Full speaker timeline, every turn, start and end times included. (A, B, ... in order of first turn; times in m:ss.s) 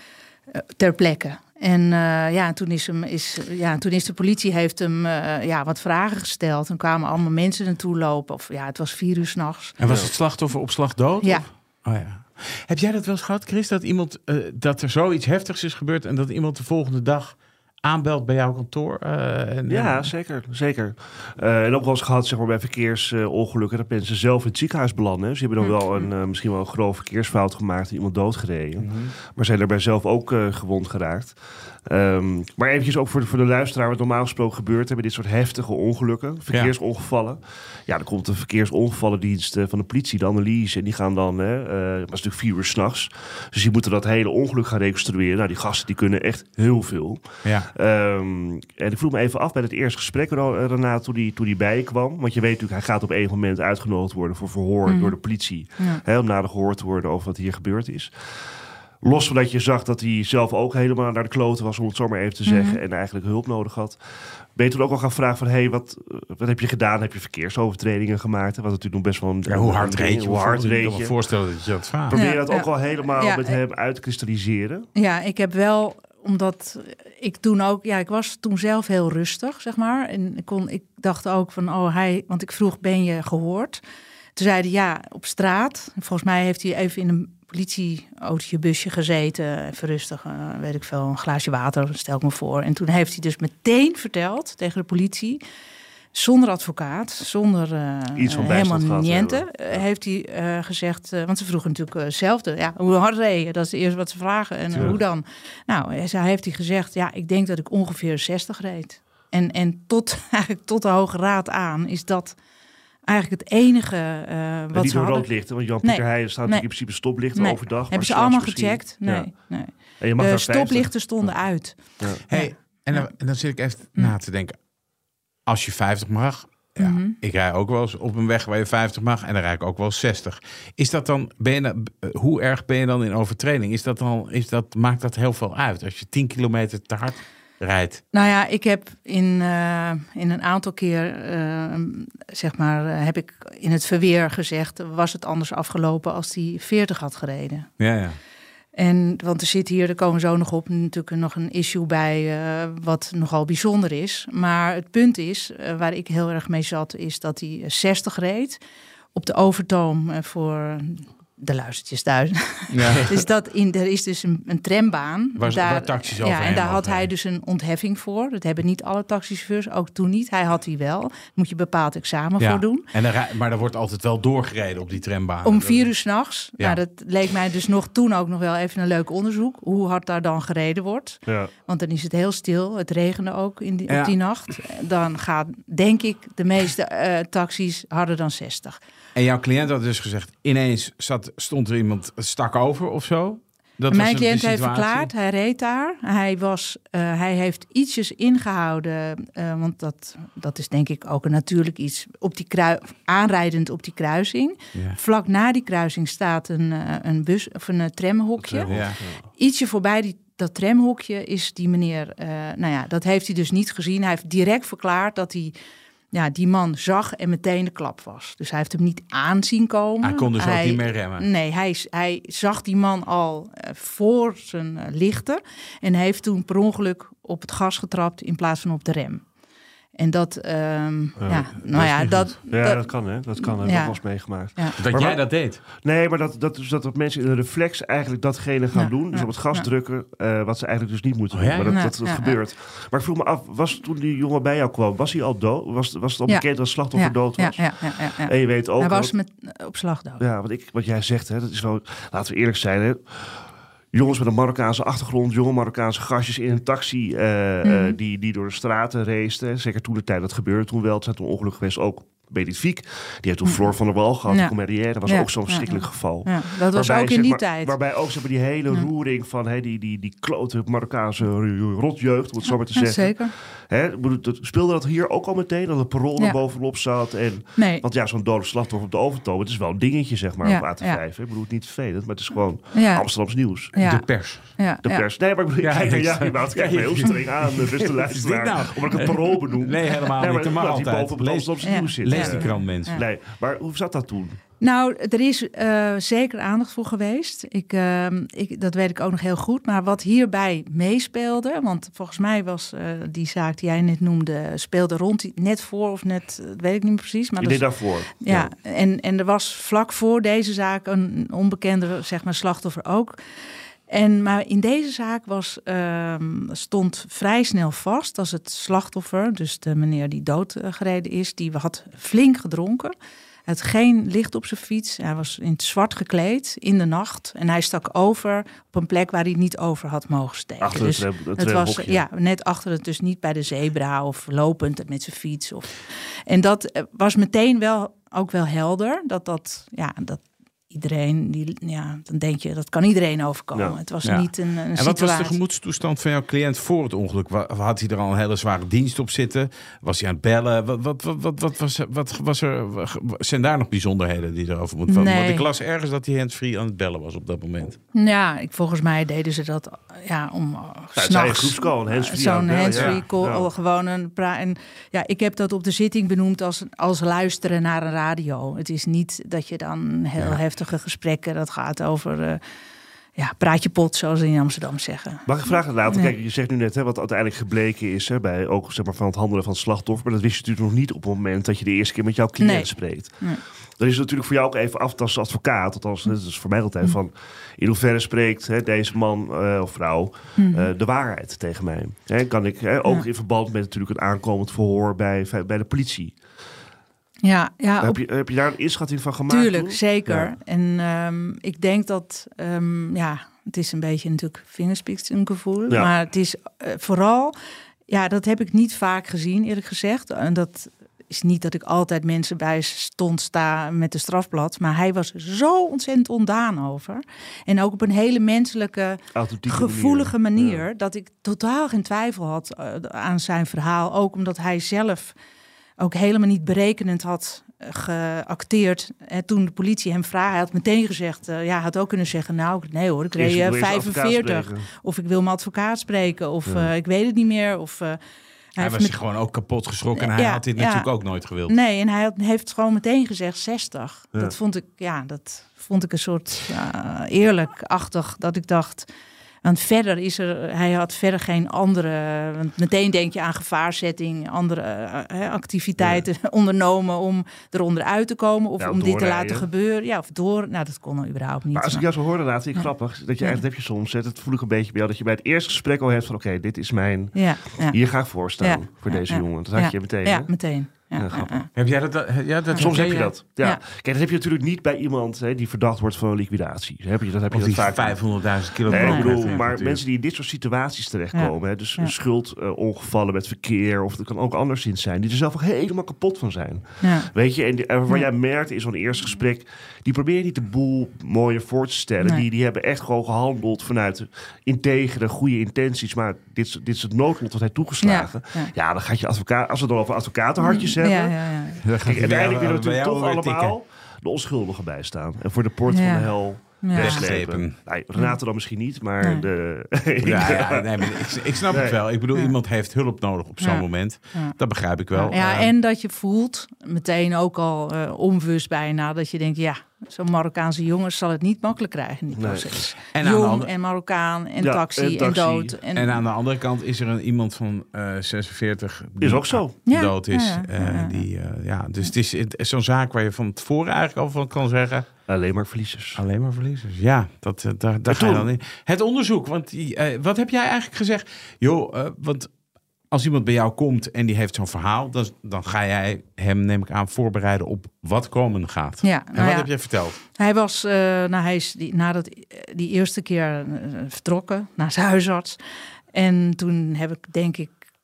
0:00.5-0:09.8 A
0:09.8-0:20.1 B
0:09.9-0:10.1 C
0:19.7-1:04.0 C
0:25.6-0:26.1 A
0:28.8-0:29.1 B
0:47.4-0:47.7 B
0:54.9-0:55.2 A
1:02.5-1:02.8 A
1:04.5-1:11.2 C
1:09.5-1:12.2 B
1:12.1-1:14.9 C
1:12.1-1:13.6 A
1:15.0-1:23.8 A
1:24.4-1:35.4 A
1:36.1-1:52.4 A
1:38.2-1:39.8 C
1:44.7-1:45.0 C
1:53.1-2:03.1 A
1:54.7-2:02.2 C
2:02.3-2:04.6 B
2:05.5-2:18.0 B
2:06.8-2:07.2 A
2:18.1-2:27.7 A
2:27.8-2:28.2 B
2:28.8-2:38.6 A
2:39.2-2:52.9 A
2:42.7-2:43.2 B
2:45.4-2:47.1 B
2:52.4-2:55.6 B
2:55.4-3:08.8 A
2:55.6-2:55.9 C
3:03.9-3:04.2 B
3:09.2-3:15.1 B
3:13.9-3:28.7 A
3:28.4-3:29.2 C
3:28.7-3:29.0 B
3:29.4-3:35.5 A
3:36.1-3:49.2 A
3:40.0-3:41.3 B
3:50.0-3:54.7 A
3:51.2-3:51.6 C
3:51.3-3:52.4 B
3:52.5-4:09.1 C
3:54.8-3:55.6 B
3:58.7-3:59.7 A
4:01.3-4:01.8 B
4:01.7-4:02.4 A
4:06.3-4:10.2 A
4:10.2-4:43.7 C
4:17.6-4:18.0 A
4:23.4-4:23.7 A
4:24.3-4:27.8 A
4:32.7-4:33.3 A
4:37.6-4:37.8 A
4:40.4-4:41.0 A
4:42.8-4:45.0 A
4:43.8-4:44.6 B
4:44.8-4:54.4 C
4:45.6-4:53.0 B
4:51.6-4:53.0 A
4:54.6-5:13.2 A
5:07.4-5:08.5 C
5:13.9-5:22.9 A
5:23.5-5:35.7 A
5:30.6-5:32.0 C
5:36.3-5:45.4 A
5:44.0-5:57.8 B
5:54.9-5:55.5 A
5:57.9-6:12.4 A
6:01.0-6:03.5 C
6:02.7-6:03.0 B
6:13.2-6:16.1 A
6:15.3-6:36.2 C
6:22.4-6:23.4 A
6:30.4-6:30.7 A
6:37.2-6:38.0 A
6:37.8-6:40.3 C
6:39.3-6:47.3 A
6:47.9-7:05.2 A
6:59.1-7:00.6 C
7:05.8-7:18.0 A
7:13.2-7:14.7 C
7:18.6-7:19.0 A
7:18.6-7:21.6 B
7:20.0-7:20.9 A
7:21.5-7:28.9 A
7:29.4-7:42.0 A
7:35.8-7:36.0 C
7:38.6-7:39.5 C
7:41.5-7:51.4 C
7:47.2-7:51.5 A
7:51.6-7:53.1 B
7:52.5-7:53.6 A
7:52.6-8:31.8 C
7:57.3-7:59.8 B
7:58.8-7:59.4 A
8:01.1-8:01.9 A
8:06.8-8:07.1 A
8:17.8-8:18.5 A
8:20.4-8:21.6 A
8:21.6-8:23.6 B
8:25.7-8:27.1 A
8:26.8-8:27.6 B
8:30.0-8:35.5 B
8:33.4-8:34.4 A
8:34.9-8:46.0 A
8:42.2-8:42.5 C
8:42.9-8:43.5 B
8:44.4-8:45.6 C
8:45.7-8:55.0 B
8:49.0-8:49.6 C
8:49.7-8:51.1 A
8:55.1-8:56.0 C
8:56.0-9:02.3 B
8:57.9-8:58.3 C
9:02.9-9:10.0 B
9:08.8-9:15.4 A
9:15.9-9:17.6 A